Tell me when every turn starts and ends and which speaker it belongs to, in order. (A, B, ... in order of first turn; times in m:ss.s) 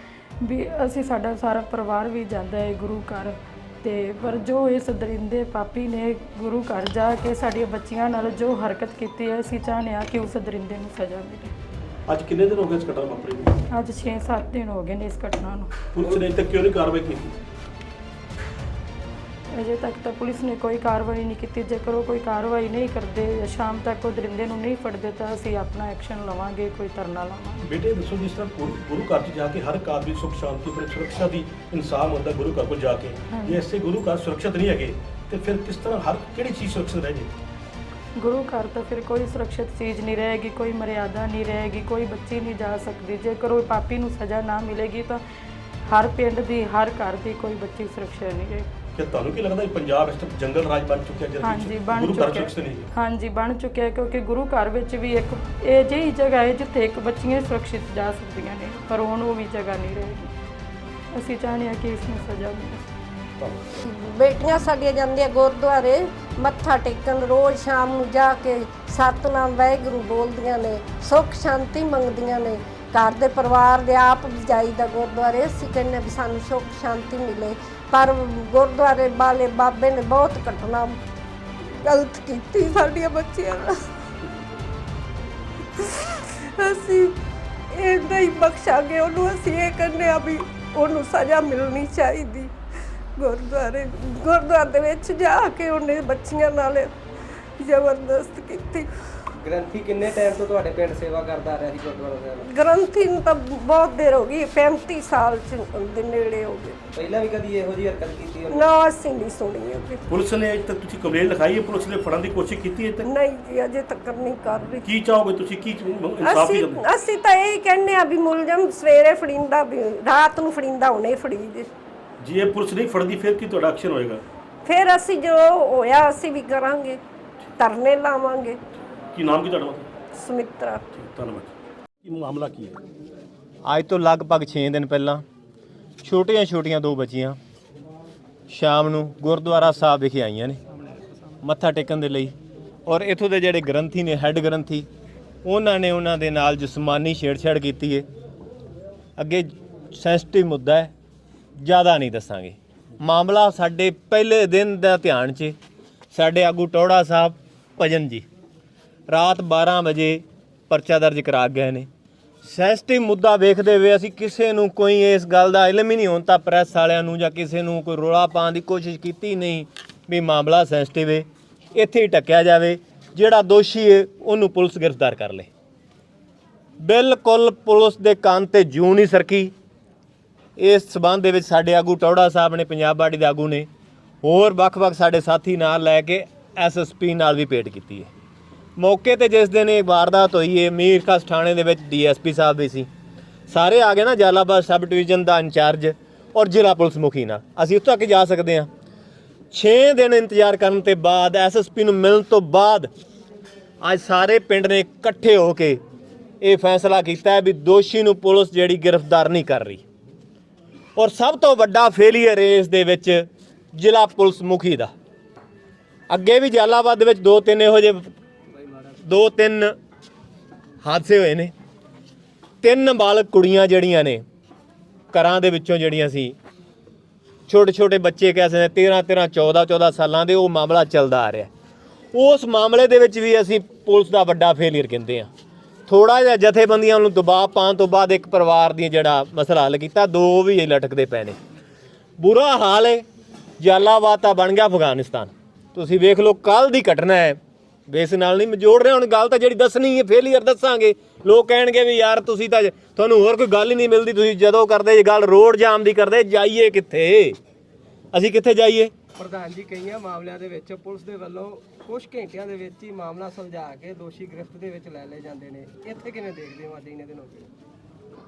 0:00.4-0:11.5 A
0:12.1-0:13.6 B
0:13.7-0:15.8 A
0:15.9-0:17.4 B
0:19.5-0:27.6 A
0:27.6-0:37.3 B
0:33.3-0:33.6 A
0:38.2-0:45.2 A
0:45.9-0:48.7 A
0:49.0-0:52.9 B
0:51.4-1:00.3 A
1:01.1-1:02.8 A
1:03.4-1:03.8 B
1:03.8-1:21.0 C
1:21.6-1:23.8 C
1:25.8-1:27.2 C
1:27.7-1:32.5 C
1:33.2-1:37.0 C
1:37.6-1:38.9 C
1:39.4-1:42.4 D
1:42.4-1:46.8 C
1:46.9-1:48.7 D
1:48.5-1:50.0 C
1:50.1-1:53.1 B
1:53.0-1:54.9 C
1:54.8-1:56.8 B
1:56.2-2:01.7 C
2:02.2-2:04.2 B
2:04.6-2:07.0 C
2:07.6-2:08.6 C
2:09.1-2:09.9 B
2:10.2-2:10.8 C
2:11.0-2:11.5 B
2:12.0-2:12.8 B
2:13.6-2:15.2 E
2:16.0-2:17.4 E
2:18.5-2:20.6 E
2:21.4-2:22.3 E
2:22.9-2:24.9 E
2:25.4-2:28.1 E
2:29.2-2:30.9 E
2:31.6-2:35.6 E
2:36.1-2:38.3 E
2:39.1-2:41.9 E
2:42.4-2:55.5 E
2:56.8-2:59.5 E
3:00.6-3:03.7 E
3:04.2-3:08.1 E
3:08.8-3:12.9 E
3:13.5-3:18.7 E
3:19.5-3:22.9 E
3:23.8-3:25.8 E
3:26.4-3:29.8 E
3:31.0-3:34.9 E
3:36.1-3:38.1 E
3:39.0-3:39.7 E
3:40.8-3:41.5 E
3:42.6-3:44.2 E
3:45.1-3:46.4 E
3:47.5-3:51.5 E
3:52.1-3:55.3 E
3:55.9-4:01.4 E
4:02.2-4:03.0 E
4:03.6-4:07.4 E
4:07.9-4:17.4 E
4:18.1-4:18.9 E
4:19.2-4:27.5 D